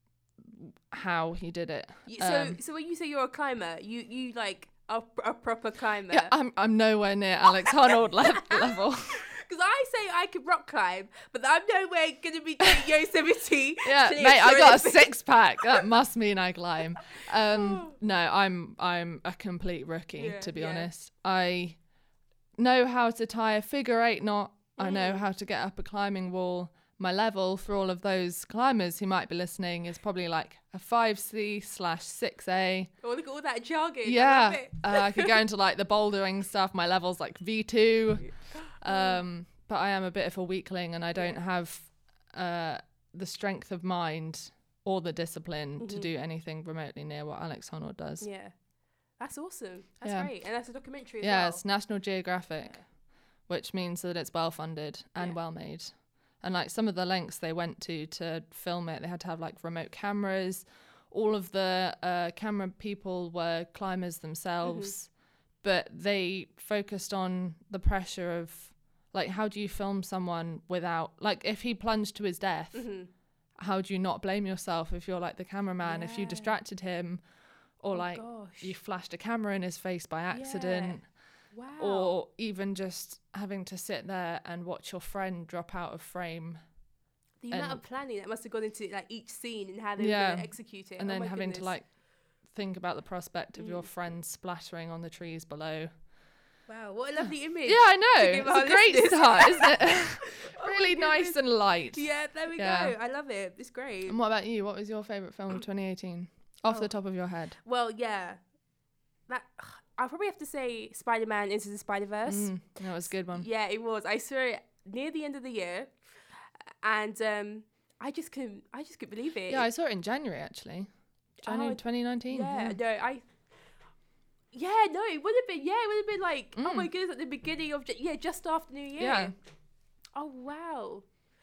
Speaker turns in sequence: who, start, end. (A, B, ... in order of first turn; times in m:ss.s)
0:00.4-0:02.6 A
0:02.1-0:06.3 B
0:06.1-0:09.2 A
0:07.7-0:15.8 B
0:12.6-0:12.9 A
0:13.8-0:21.8 A
0:17.1-0:17.9 B
0:20.2-0:20.9 B
0:22.6-0:32.9 A
0:24.8-0:25.2 B
0:33.0-0:35.3 B
0:34.0-0:48.3 A
0:38.2-0:39.2 B
0:45.8-0:46.1 B
0:48.2-0:48.5 B
0:49.2-0:51.6 B
0:50.0-0:50.3 A
0:51.2-0:52.8 A
0:53.5-1:05.1 A
1:04.6-1:04.9 B
1:05.6-1:12.8 A
1:12.7-1:13.1 B
1:13.6-1:17.2 A
1:15.8-1:16.6 B
1:17.8-1:21.0 A
1:17.9-1:18.7 B
1:20.3-1:21.0 B
1:21.5-1:22.1 B
1:21.8-1:26.6 A
1:27.4-1:31.7 B
1:27.5-1:27.8 A
1:30.0-1:31.8 A
1:32.5-1:35.9 A
1:33.6-1:33.9 B
1:36.7-1:41.4 B
1:37.6-1:43.0 A
1:41.9-1:44.2 B
1:44.1-1:47.6 A
1:47.6-1:48.4 B
1:49.3-1:52.5 B
1:52.2-1:53.5 A
1:53.3-1:55.9 B
1:56.8-1:59.6 B
1:59.5-2:00.9 A
2:01.4-2:02.8 A
2:01.4-2:03.2 B
2:04.5-2:09.3 B
2:06.6-2:06.9 A
2:09.0-2:09.3 A
2:10.1-2:11.0 B